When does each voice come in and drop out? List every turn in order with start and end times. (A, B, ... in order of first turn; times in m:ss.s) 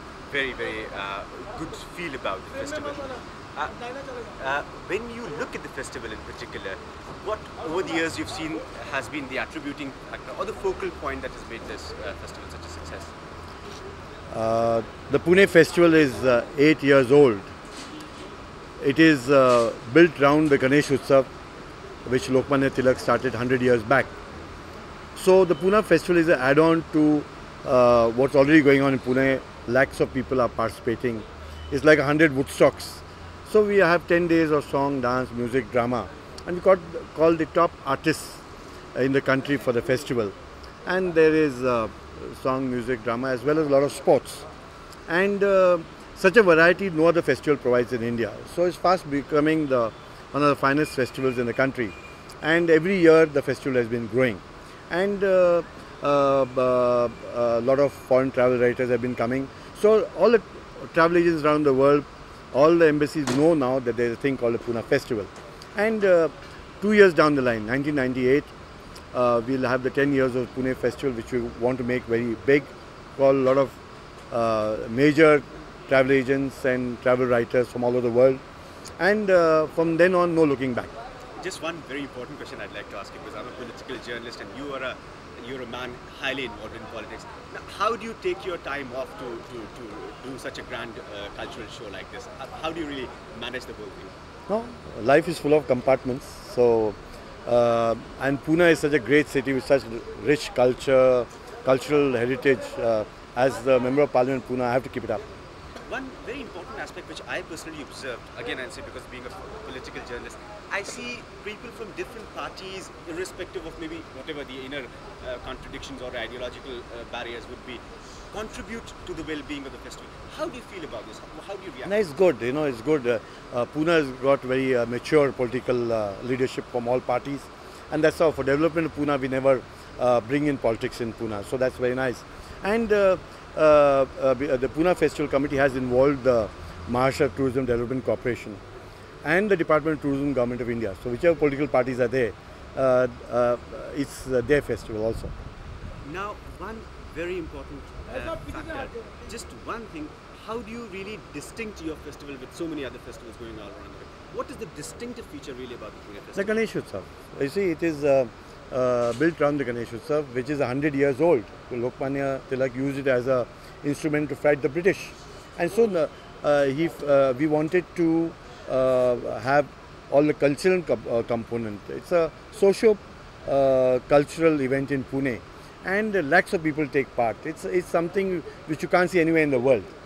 0:00.3-0:13.1 A
0:14.3-0:17.5 B
0:18.8-0:21.3 B
0:22.0-0:24.1 B
0:25.2-0:38.4 B
0:39.0-0:40.3 B
0:40.8-0:44.4 B
0:45.1-1:08.5 B
1:09.1-1:13.8 B
1:14.3-1:18.4 B
1:19.0-1:20.9 B
1:21.4-1:34.1 A
1:34.5-1:45.2 B
1:45.8-2:02.0 A
2:01.8-2:18.6 B
2:19.2-2:25.3 B
2:26.0-2:36.6 A
2:36.4-2:59.9 B